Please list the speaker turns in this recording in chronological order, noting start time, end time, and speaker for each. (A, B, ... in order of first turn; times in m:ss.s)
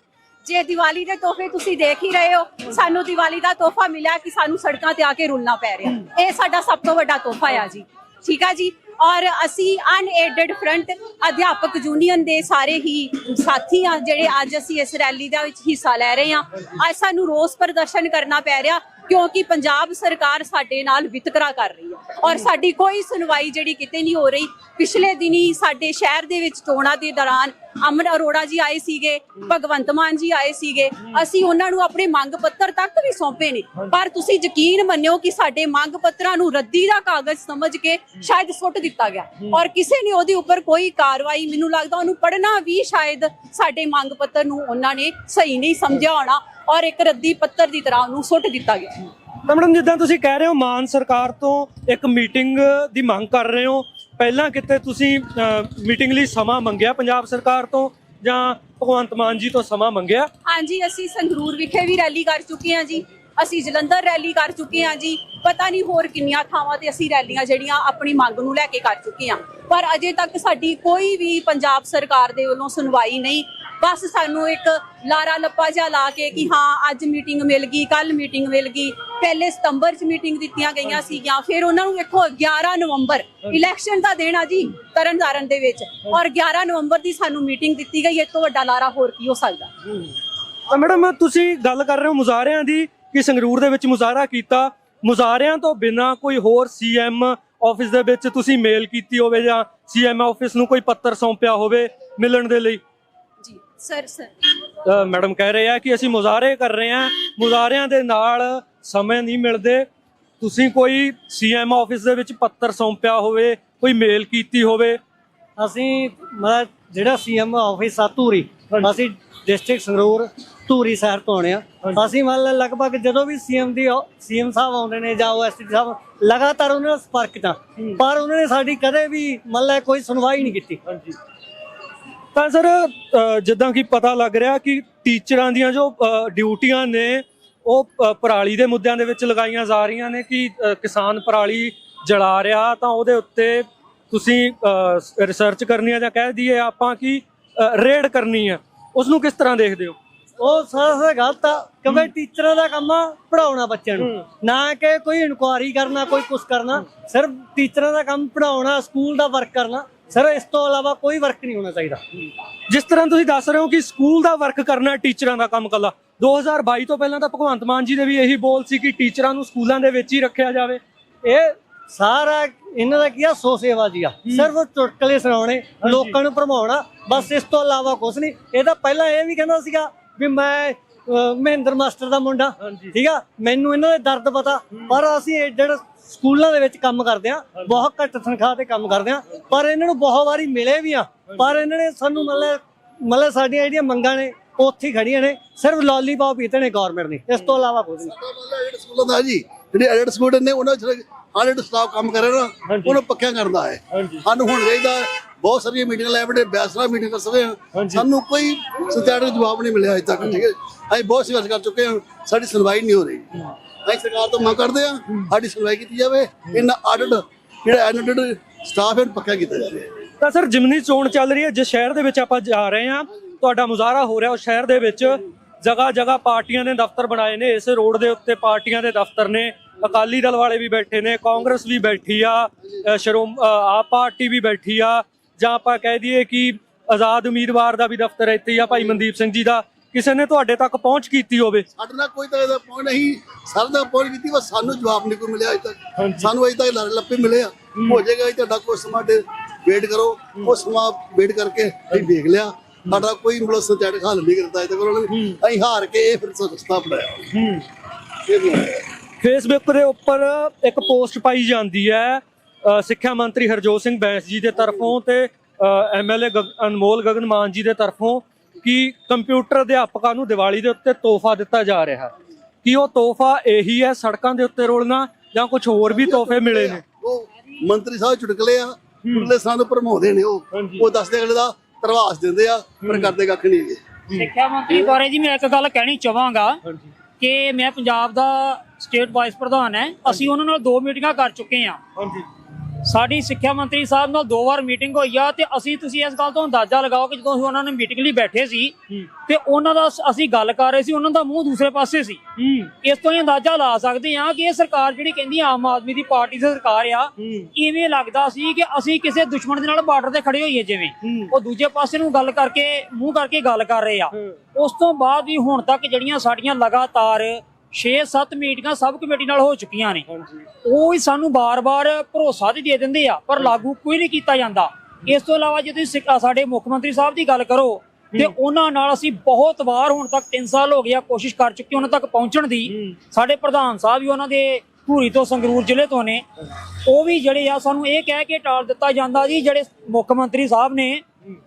0:00.4-0:49.1 A
0:49.5-1:00.3 B
1:00.5-1:29.7 A
1:30.7-1:42.8 B
1:43.4-1:44.3 A
1:44.8-1:49.9 B
1:50.4-1:55.0 B
1:55.6-2:10.8 C
2:12.3-2:30.0 B
2:30.4-2:42.0 C
2:42.7-2:50.8 B
2:51.2-3:18.1 C
2:55.8-2:56.2 B
3:02.6-3:02.9 B
3:18.0-3:39.9 D
3:22.7-3:23.0 B
3:23.9-3:24.2 B
3:27.8-3:28.0 B
3:40.2-4:01.7 B
4:01.8-4:17.3 D
4:06.0-4:06.3 B
4:07.8-4:08.0 B
4:15.1-4:15.4 B
4:17.3-4:17.6 B
4:18.3-4:18.8 D
4:19.2-4:32.1 B
4:32.6-4:36.8 B
4:35.9-4:43.8 D
4:39.1-4:39.3 B
4:40.5-4:40.8 B
4:42.8-4:43.1 B
4:44.1-4:46.6 E
4:47.2-4:51.8 E
4:52.0-4:52.2 B
4:52.8-5:20.1 E
5:20.6-5:36.2 E
5:36.8-5:41.0 E